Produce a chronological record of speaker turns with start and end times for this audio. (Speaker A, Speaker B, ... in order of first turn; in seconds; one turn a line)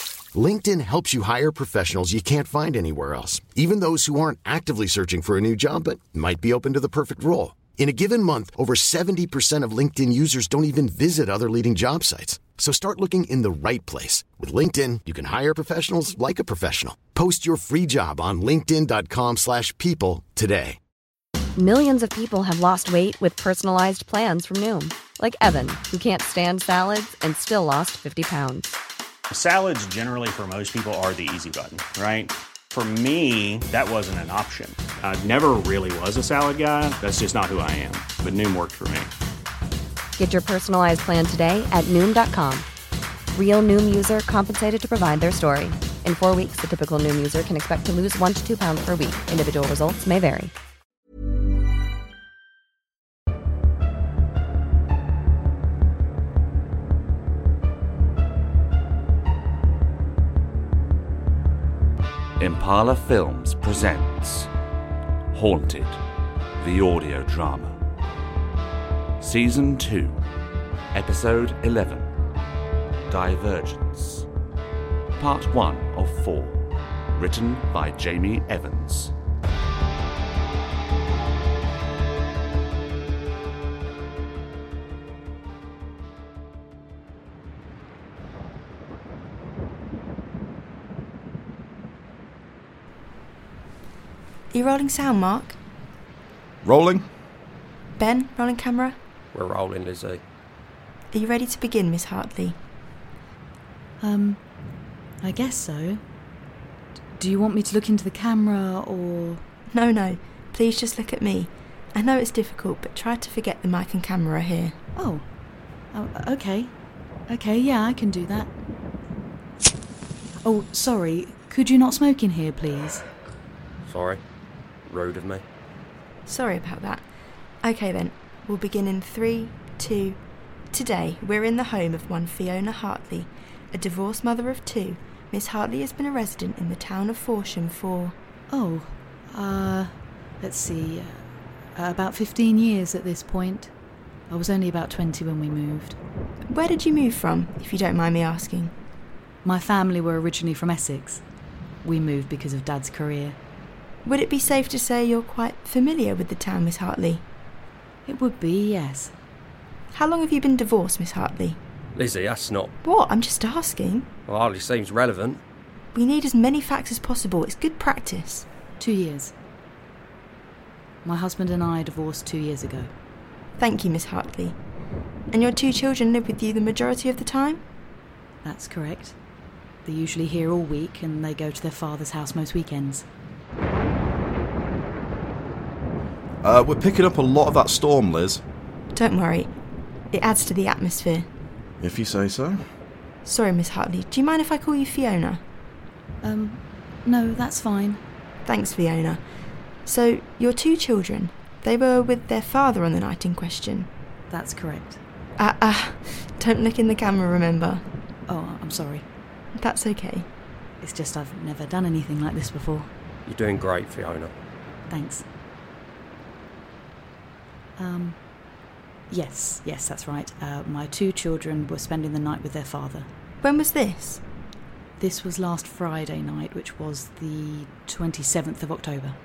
Speaker A: 0.3-20.8
Speaker B: 21.6-28.8
Speaker C: 29.3-39.1
Speaker B: 40.2-42.7
Speaker B: 43.3-50.5
Speaker D: 62.4-64.5
Speaker D: 65.3-66.0
Speaker D: 66.6-67.8
Speaker D: 69.2-70.2
Speaker D: 70.9-72.1
Speaker D: 73.1-74.3
Speaker D: 75.2-79.1
Speaker E: 94.5-95.6
Speaker F: 96.6-97.1
Speaker E: 98.0-99.0
Speaker G: 99.3-100.2
Speaker E: 101.1-102.6
Speaker H: 104.0-104.4
Speaker H: 105.2-106.0
Speaker H: 107.2-109.4
Speaker E: 109.7-114.8
Speaker H: 115.0-115.2
Speaker H: 115.9-116.7
Speaker H: 117.3-118.5
Speaker H: 120.4-123.0
Speaker G: 123.9-124.2
Speaker G: 124.8-125.4
Speaker E: 126.2-127.0
Speaker E: 127.6-130.2
Speaker E: 130.7-138.2
Speaker H: 138.5-141.2
Speaker H: 141.8-143.7
Speaker H: 144.3-146.0
Speaker E: 146.5-148.7
Speaker H: 149.4-151.2
Speaker H: 151.8-153.4
Speaker E: 154.0-157.2
Speaker H: 158.1-159.1
Speaker E: 159.9-161.6
Speaker G: 161.9-162.7
Speaker E: 162.8-164.1
Speaker G: 164.3-165.4
Speaker E: 165.9-168.4
Speaker H: 168.8-169.3
Speaker H: 171.0-172.9
Speaker E: 173.6-174.6
Speaker E: 175.3-177.6
Speaker H: 178.4-179.2
Speaker H: 179.8-183.0
Speaker F: 186.4-188.4
Speaker E: 188.9-189.5
Speaker E: 190.1-191.3
Speaker F: 191.8-192.6
Speaker E: 193.2-195.4
Speaker H: 196.2-198.0
Speaker E: 198.4-199.2
Speaker E: 199.8-203.9
Speaker H: 204.3-205.0
Speaker E: 205.4-207.8
Speaker H: 208.3-209.1
Speaker E: 209.6-210.3
Speaker H: 210.8-212.9
Speaker G: 213.2-214.3
Speaker H: 214.9-215.2
Speaker H: 217.8-218.2
Speaker H: 219.1-223.1
Speaker E: 223.4-224.2
Speaker H: 225.0-229.2